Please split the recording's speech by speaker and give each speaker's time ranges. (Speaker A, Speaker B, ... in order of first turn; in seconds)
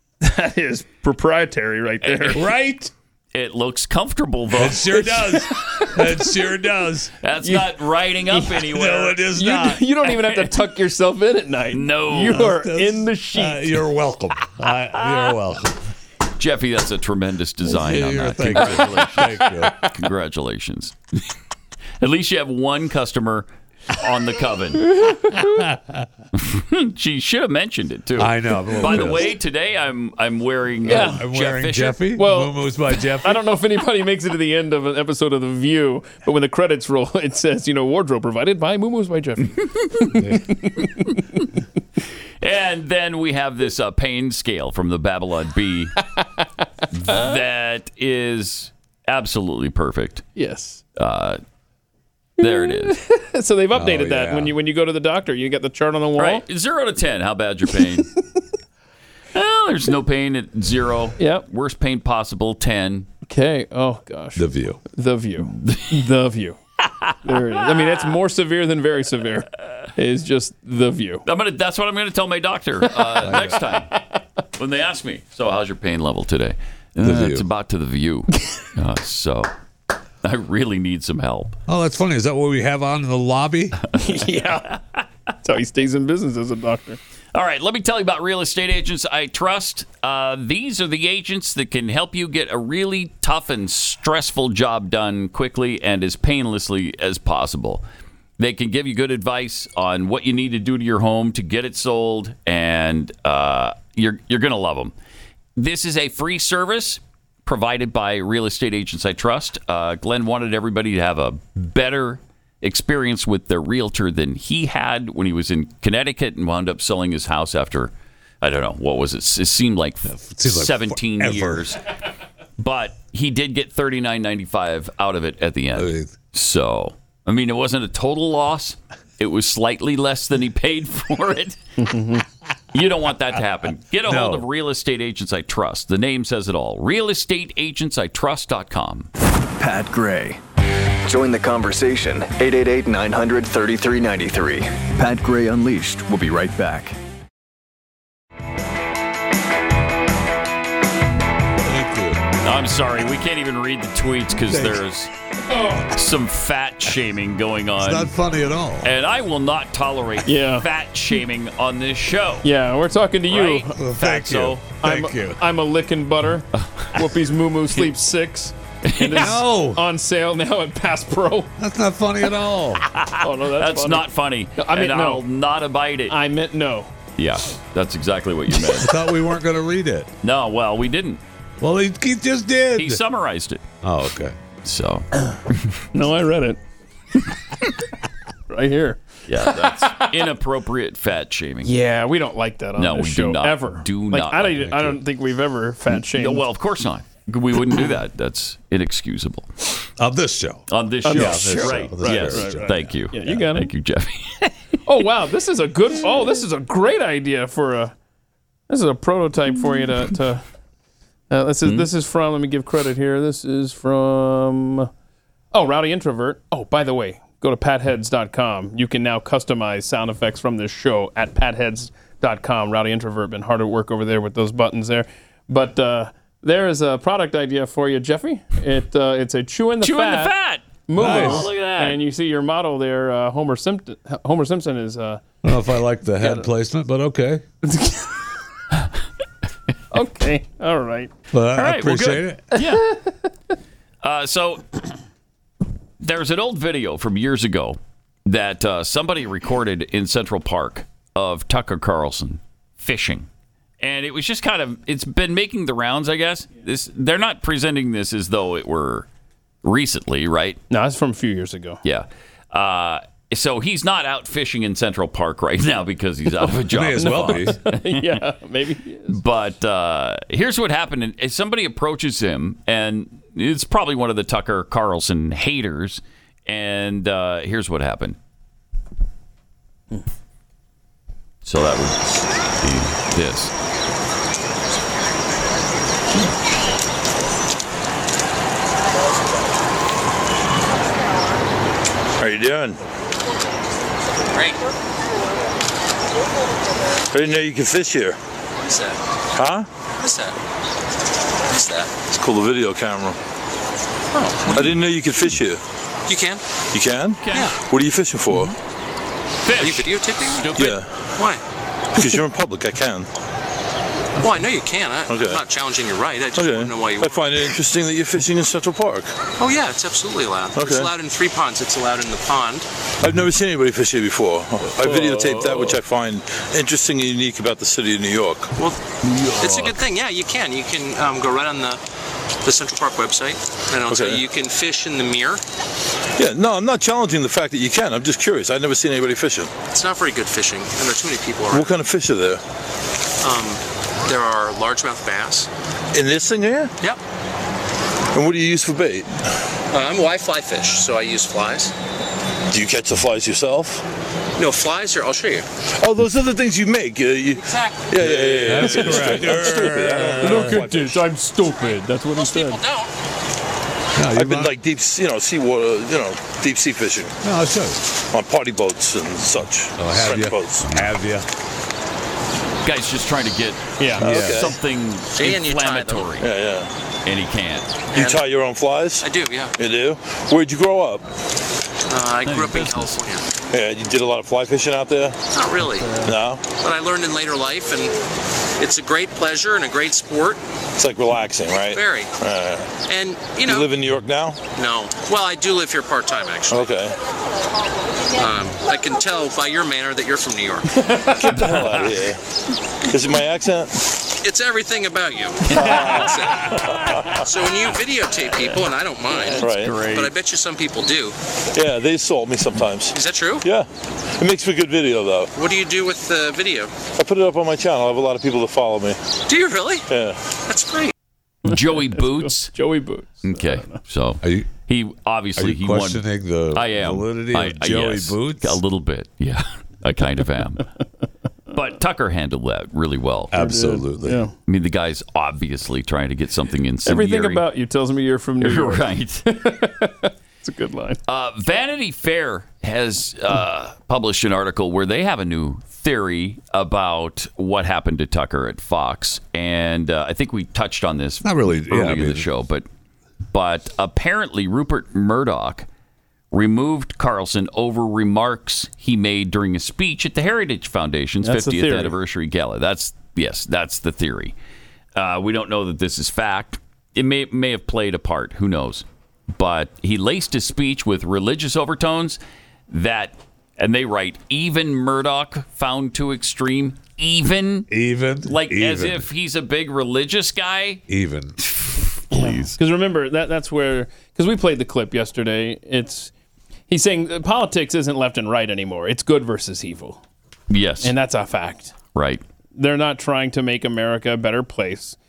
Speaker A: 0.2-2.5, 5.2-6.1, 7.4-7.7, 8.3-8.7, 9.3-13.7, 24.9-25.5, 30.9-31.2, 32.1-32.6, 33.2-39.6, 40.6-41.2, 50.4-50.8, 52.4-56.4, 61.2-61.5, 63.2-66.6, 67.2-71.2, 84.0-84.8, 85.4-87.0, 131.8-132.2, 155.5-155.8, 160.2-160.7, 162.4-163.7, 164.8-171.5, 173.2-175.2, 176.1-176.9, 185.9-186.6, 188.5-190.2, 191.6-196.4, 201.0-203.7, 204.8-207.9, 208.7-210.4, 211.3-214.9, 215.5-230.3, 230.9-235.2, 237.6-238.1, 239.9-241.1, 242.6-243.1, 260.7-261.8, 267.0-269.2, 360.0-362.6, 373.8-374.1, 400.7-401.6, 421.5-423.8, 433.3-434.3, 436.8-441.0, 461.2-461.9, 482.2-486.1, 486.7-490.0, 490.8-491.7, 492.5-494.9
Speaker B: 2.0-2.4, 3.3-5.2, 7.2-9.2, 10.1-10.7, 11.7-12.5, 16.4-20.9, 22.0-24.9, 26.3-32.0, 39.7-40.2, 42.4-45.9, 46.9-50.2, 51.0-51.4, 52.4-53.0, 56.2-58.1, 59.3-63.1, 65.5-66.0, 67.0-68.0, 71.2-73.9, 74.5-79.5, 80.2-81.6, 84.3-84.7, 87.3-97.8, 98.4-104.9, 105.5-121.8, 122.6-131.6, 132.7-139.1, 152.4-155.1, 155.9-158.1, 158.8-162.4, 163.3-164.6, 168.9-169.4, 172.9-176.2, 177.2-178.9, 180.2-181.2, 182.8-183.6, 184.6-185.1, 189.3-191.7, 192.8-194.9, 195.9-199.5, 200.7-204.5, 211.6-211.9, 229.8-232.0, 241.6-242.9, 244.0-244.7, 246.0-253.3, 253.8-259.1, 259.6-260.6, 261.8-268.2, 269.1-278.2, 281.4-283.5, 307.2-307.5, 309.4-310.8, 329.0-329.7, 372.6-376.3, 377.0-377.8, 382.2-383.0, 405.7-406.1, 409.4-410.1, 421.4-422.5, 423.2-430.6, 431.5-433.4, 434.4-437.4, 438.4-439.3, 441.1-452.6, 453.3-455.7, 456.3-464.3, 464.9-477.7, 478.2-480.8, 481.5-482.6, 490.5-490.9, 491.9-492.2
Speaker C: 2.3-2.9, 4.5-7.1, 8.7-9.8, 12.3-15.8, 17.6-19.8, 28.2-29.3, 30.9-33.4, 53.7-54.5, 64.3-64.8, 73.2-73.6, 77.0-77.5, 81.7-83.8, 120.1-121.7, 125.7-126.1, 134.0-134.4, 151.6-152.2, 154.4-154.8, 157.8-158.9, 163.7-165.4, 169.1-169.8, 171.6-172.8, 178.8-180.1, 181.6-183.0, 183.8-184.3, 194.6-195.0, 200.0-202.9, 231.0-231.5, 235.4-237.4, 241.3-242.4, 266.7-267.6, 358.4-360.6, 363.9-364.6, 367.2-367.8, 369.8-371.2, 374.0-374.5, 424.2-424.5, 425.4-428.6, 433.3-434.2, 451.2-452.3, 477.7-479.1, 480.9-481.4
Speaker D: 139.6-140.4, 141.0-146.9
Speaker E: 292.2-292.8, 297.1-298.2, 299.3-299.7, 302.1-303.2, 304.5-305.6, 306.7-308.5, 310.5-311.2, 311.9-313.1, 315.1-315.4, 316.3-319.1, 320.5-320.9, 323.0-328.5, 333.8-334.2, 336.2-339.5, 341.5-342.4, 345.9-346.7, 348.1-349.1, 352.5-353.8, 355.8-360.9, 364.1-367.1, 368.1-370.7, 374.0-374.5, 376.2-376.7, 377.9-381.1, 383.5-385.2, 385.9-386.5, 390.8-392.8, 393.4-394.4, 396.5-396.9, 401.1-402.2, 402.9-403.8, 405.6-406.1, 409.4-409.8, 411.5-415.3, 416.9-419.0, 419.9-420.2
Speaker F: 294.3-294.6, 298.6-299.0, 300.0-300.4, 301.4-302.0, 306.1-306.4, 309.6-310.5, 314.2-317.3, 319.4-322.7, 329.4-331.8, 332.4-335.4, 339.7-341.7, 343.2-345.5, 349.7-351.7, 354.4-355.4, 357.3-358.0, 362.1-362.9, 375.2-376.1, 377.9-378.2, 379.0-379.5, 381.9-383.2, 385.3-385.9, 386.5-387.9, 388.6-390.4, 391.7-392.1, 392.9-393.7, 394.5-396.7, 398.1-400.7, 404.2-406.5, 407.2-411.1, 412.9-413.4, 415.4-416.7, 419.3-419.9, 420.5-420.9